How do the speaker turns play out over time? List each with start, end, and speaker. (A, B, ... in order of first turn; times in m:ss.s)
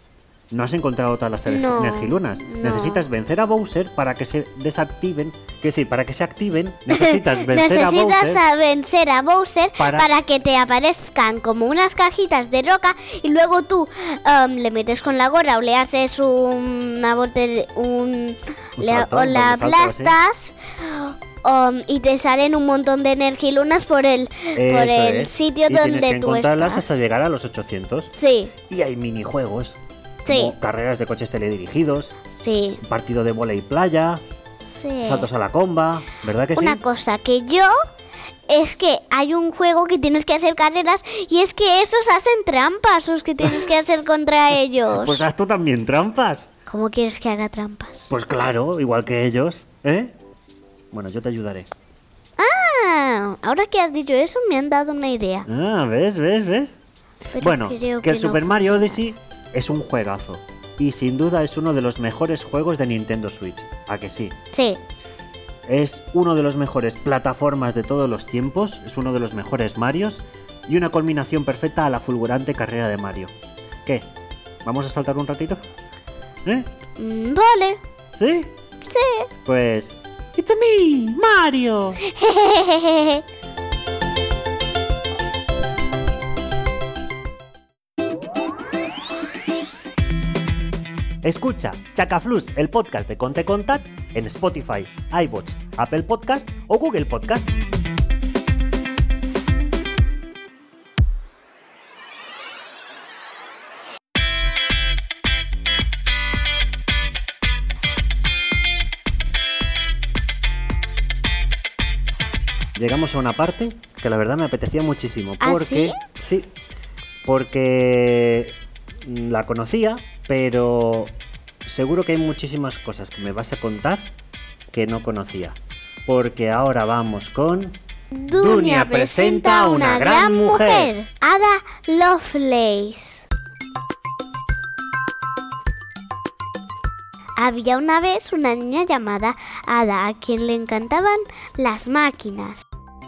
0:00.5-0:08.4 A
0:01.5-0:03.0 B
0:06.9-0:27.0 B
0:09.8-0:10.1 A
0:18.8-0:20.2 A
0:24.5-0:28.1 A
0:28.1-0:28.5 B
0:28.7-0:32.1 A
0:30.2-0:30.5 B
0:32.3-0:32.8 B
0:32.8-0:34.2 A
0:34.6-0:35.3 B
0:35.0-0:36.8 A
0:36.5-0:37.7 B
0:38.5-0:45.2 B
0:44.9-0:46.5 A
0:46.7-0:48.1 B
0:48.1-0:50.1 A
0:50.9-0:51.7 A
0:52.4-0:55.4 B
0:55.5-0:56.8 A
0:57.3-0:59.0 B
0:57.4-1:04.4 A
1:04.5-1:04.8 B
1:05.6-1:13.3 A
1:14.6-1:15.6 A
1:17.0-1:17.8 B
1:18.2-1:18.5 A
1:18.8-1:19.3 B
1:19.4-1:22.0 A
1:22.0-1:23.2 B
1:31.2-1:37.5 A
1:52.8-1:56.5 A
1:55.4-1:56.0 B
1:57.2-2:01.1 A
2:01.6-2:04.1 A
2:04.7-2:10.9 A
2:08.1-2:13.2 B
2:17.4-2:22.6 B